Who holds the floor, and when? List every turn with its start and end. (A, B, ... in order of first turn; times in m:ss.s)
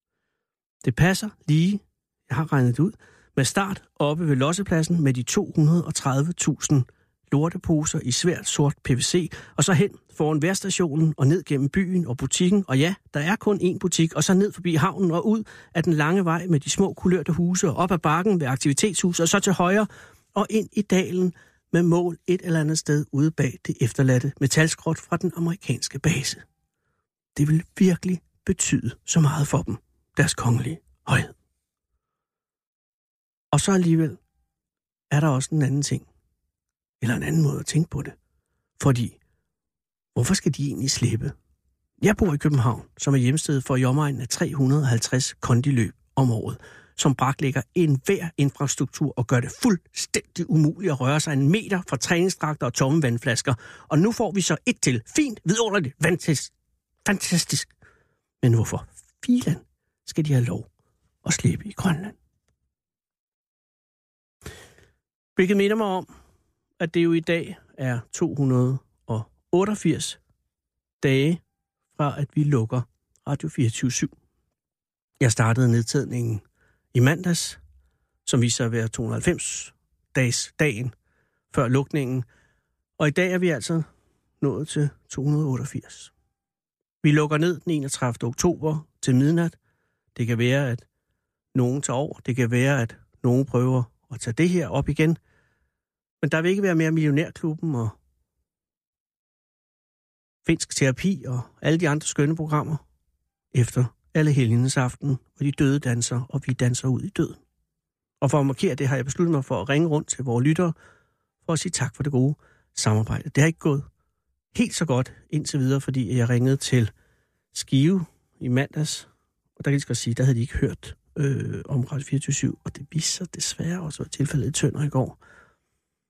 0:00.8-0:26.4 A
0:27.3-0:31.3 A
0:33.5-0:34.2 A
0:35.1-0:36.0 A
0:37.0-0:38.1 A
0:38.8-0:39.2 A
0:40.1-0:41.3 A
0:42.0-0:56.5 A
0:57.0-0:57.7 A
0:58.4-1:00.7 A
1:01.2-1:02.2 A
1:05.4-1:06.1 A
1:06.8-1:10.2 A
1:11.0-1:11.4 A
1:12.0-1:14.1 A
1:15.2-1:16.4 A
1:16.9-1:17.6 A
1:18.2-1:20.9 A
1:21.5-1:22.2 A
1:23.0-1:23.8 A
1:24.4-1:26.1 A
1:27.0-1:29.5 A
1:30.1-1:30.8 A
1:31.5-1:35.2 A
1:36.2-1:37.9 A
1:40.4-1:42.8 A
1:43.5-1:47.4 A
1:48.2-1:50.7 A
1:51.4-1:53.8 A
1:54.5-1:56.9 A
1:57.5-2:05.2 A